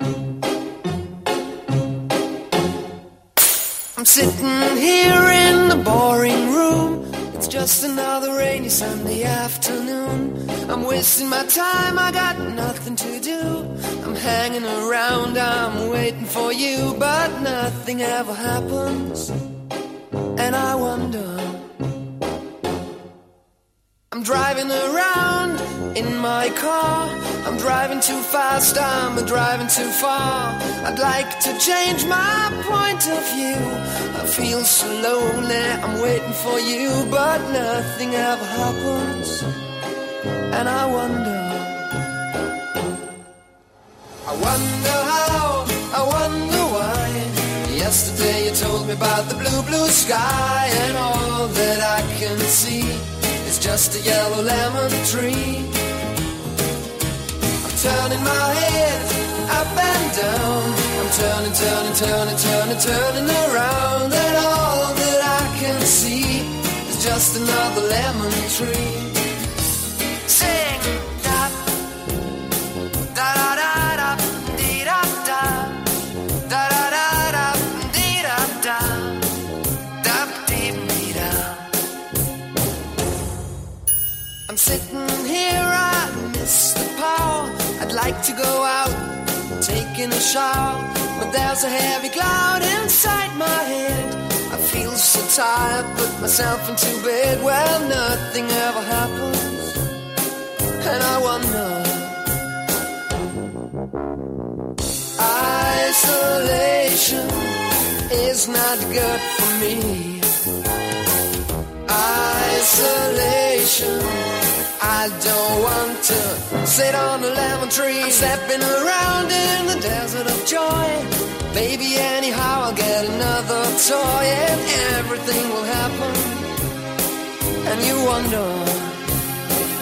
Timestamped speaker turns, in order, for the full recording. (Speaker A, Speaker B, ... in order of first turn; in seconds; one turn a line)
Speaker A: 3.9-19.3
Speaker A: 20.4-21.7
Speaker A: 24.1-39.5
Speaker A: 40.5-41.9
Speaker A: 44.2-55.8
Speaker A: 57.6-69.2
Speaker A: 70.2-71.7
Speaker A: 73.1-79.3
Speaker A: 80.0-81.7
Speaker A: 84.5-99.8
Speaker A: 100.8-102.3
Speaker A: 105.2-110.3
Speaker A: 111.9-126.5
Speaker A: 127.6-129.0